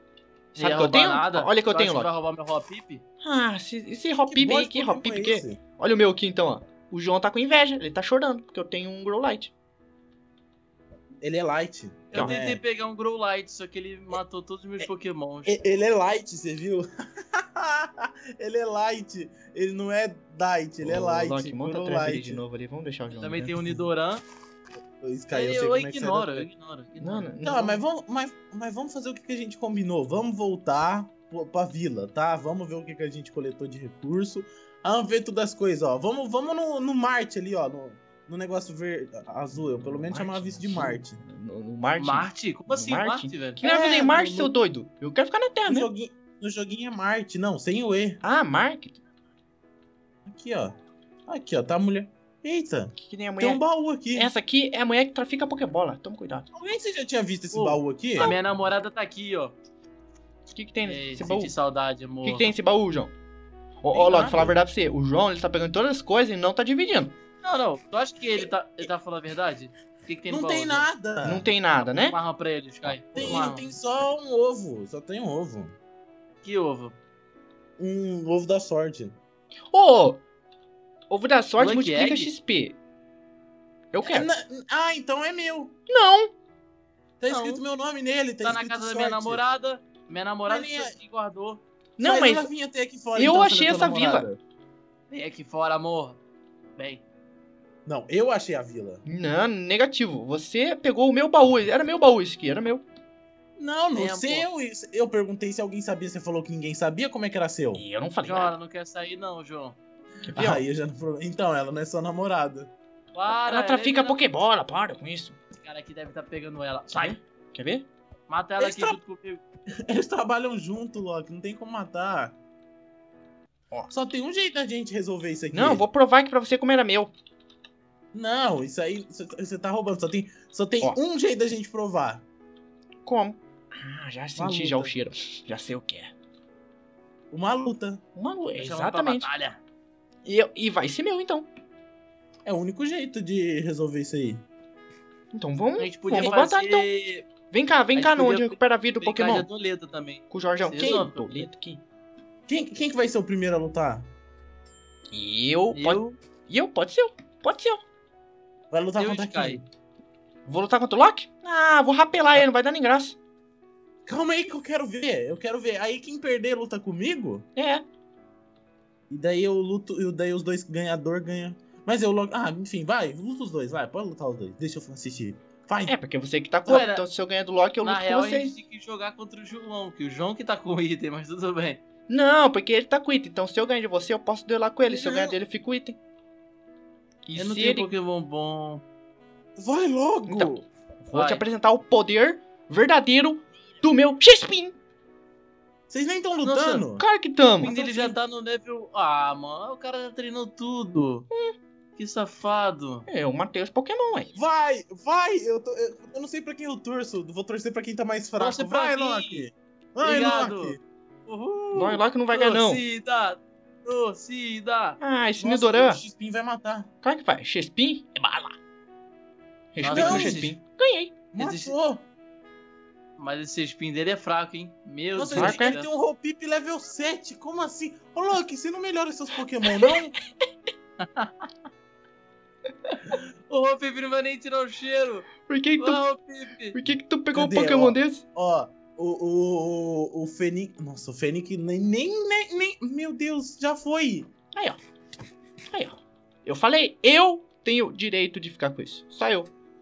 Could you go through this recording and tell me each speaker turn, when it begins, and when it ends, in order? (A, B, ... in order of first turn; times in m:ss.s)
0:00.6-0:03.0 A
0:00.6-0:02.1 B
0:03.2-0:09.5 B
0:04.3-0:05.6 C
0:11.2-0:12.6 C
0:12.1-0:15.7 A
0:15.4-0:16.8 C
0:17.4-0:22.4 C
0:20.8-0:23.8 B
0:23.1-0:24.2 A
0:25.0-0:26.5 C
0:25.3-0:27.3 A
0:27.0-0:27.8 B
0:27.4-0:41.2 C
0:39.8-0:45.9 B
0:42.0-0:43.7 A
0:43.6-0:44.5 C
0:45.7-0:48.2 C
0:48.2-0:49.0 B
0:50.3-0:50.7 C
0:51.3-0:54.3 C
0:53.0-0:53.6 B
0:54.2-0:56.5 B
0:56.5-0:58.3 C
0:57.5-0:59.6 A
1:00.5-1:01.5 B
1:00.8-1:02.5 A
1:02.2-1:03.1 B
1:03.8-1:07.2 B
1:03.9-1:04.6 C
1:07.4-1:10.9 A
1:10.3-1:11.5 C
1:11.2-1:12.2 B
1:11.8-1:13.7 A
1:12.8-1:13.5 B
1:13.1-1:15.8 C
1:16.4-1:17.0 A
1:17.8-1:19.2 C
1:19.7-1:20.2 B
1:21.1-1:22.8 B
1:21.6-1:22.3 A
1:23.9-1:24.3 B
1:24.0-1:25.8 C
1:25.9-1:26.3 B
1:27.2-1:29.4 C
1:27.3-1:27.6 A
1:28.4-1:31.6 A
1:30.5-1:31.0 C
1:32.0-1:32.5 B
1:32.0-1:34.4 C
1:33.2-1:34.3 B
1:35.1-1:36.2 A
1:36.8-1:37.0 A
1:37.9-1:39.0 C
1:39.0-1:42.8 B
1:43.6-1:47.8 C
1:44.0-1:44.5 A
1:47.8-1:48.5 B
1:48.2-1:49.8 A
1:50.3-1:50.6 B
1:50.3-1:52.7 C
1:53.2-1:54.2 A
1:53.3-1:55.4 B
1:55.6-1:57.2 A
1:57.0-1:57.9 B
1:58.3-1:59.4 A
1:58.6-1:59.0 C
1:59.9-2:02.4 C
2:03.9-2:05.8 C
2:05.5-2:07.1 B
2:08.1-2:12.2 C
2:13.0-2:16.1 B
2:14.4-2:15.0 C
2:17.3-2:18.0 C
2:18.2-2:19.3 B
2:18.6-2:19.6 A
2:20.2-2:21.5 B
2:22.4-2:24.4 C
2:25.3-2:26.9 B
2:25.8-2:27.3 A
2:27.5-2:29.5 B
2:28.0-2:31.5 A
2:30.3-2:31.8 B
2:30.8-2:31.1 C
2:32.5-2:34.1 C
2:35.1-2:37.8 B
2:35.7-2:36.2 A
2:38.7-2:39.6 C
2:39.0-2:39.6 A
2:40.5-2:43.2 B
2:44.1-2:47.4 C
2:47.6-2:47.8 B
2:49.1-2:56.0 C
2:55.9-2:58.6 B
2:56.7-2:57.0 A
2:57.8-3:01.8 A
3:02.1-3:06.0 B
3:04.9-3:05.4 C
3:07.3-3:07.9 B
3:07.4-3:08.8 A
3:09.6-3:10.7 C
3:10.3-3:10.5 B
3:11.0-3:14.8 B
3:11.1-3:11.4 A
3:15.9-3:17.0 C
3:16.4-3:16.9 A
3:17.0-3:17.7 B
3:17.6-3:21.3 A
3:17.6-3:18.2 C
3:22.0-3:23.1 A
3:23.1-3:24.3 B
3:24.3-3:30.8 C
3:28.4-3:29.5 A
3:30.0-3:35.0 A
3:31.7-3:32.8 B
3:35.0-3:36.0 B
3:35.4-3:36.9 C
3:37.0-3:38.6 B
3:39.7-3:41.1 B
3:39.8-3:40.6 A
3:39.9-3:40.5 C
3:41.3-3:42.0 C
3:41.4-3:41.8 A
3:43.2-3:45.9 A
3:45.2-3:50.1 C
3:45.4-3:45.8 B
3:51.0-3:51.5 A
3:52.9-3:56.8 A
3:55.5-3:56.0 B
3:56.7-3:58.2 B
3:57.3-4:04.3 C
4:05.7-4:09.5 B